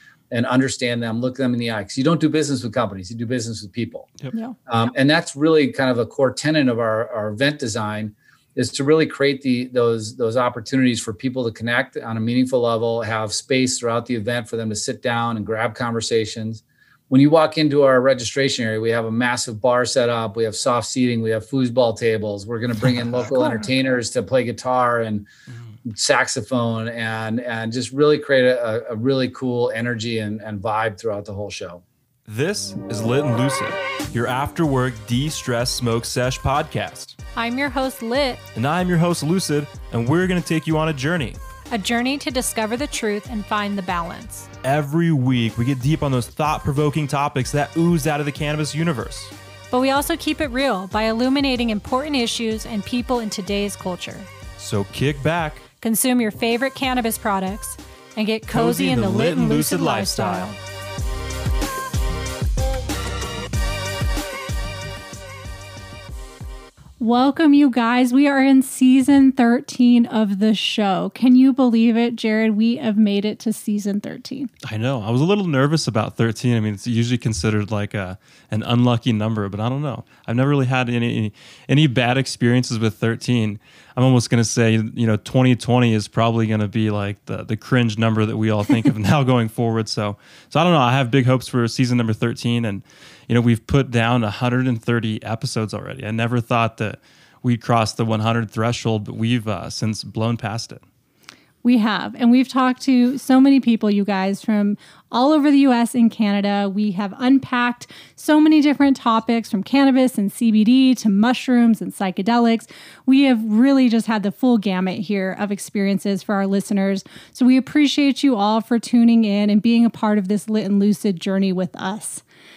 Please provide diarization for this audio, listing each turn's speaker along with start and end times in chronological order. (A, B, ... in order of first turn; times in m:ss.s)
0:00.3-0:04.1 A
0:04.7-0:25.3 A
0:25.8-0:31.8 A
0:32.2-0:37.2 B
0:37.4-0:38.4 C
0:38.5-0:41.4 B
0:41.7-0:44.5 C
0:44.6-0:49.3 B
0:49.7-0:54.3 C
0:54.6-0:55.7 B
0:55.8-1:00.6 C
0:58.5-1:00.6 B
1:07.0-1:14.5 C
1:14.6-1:40.8 B
1:41.6-2:02.2 C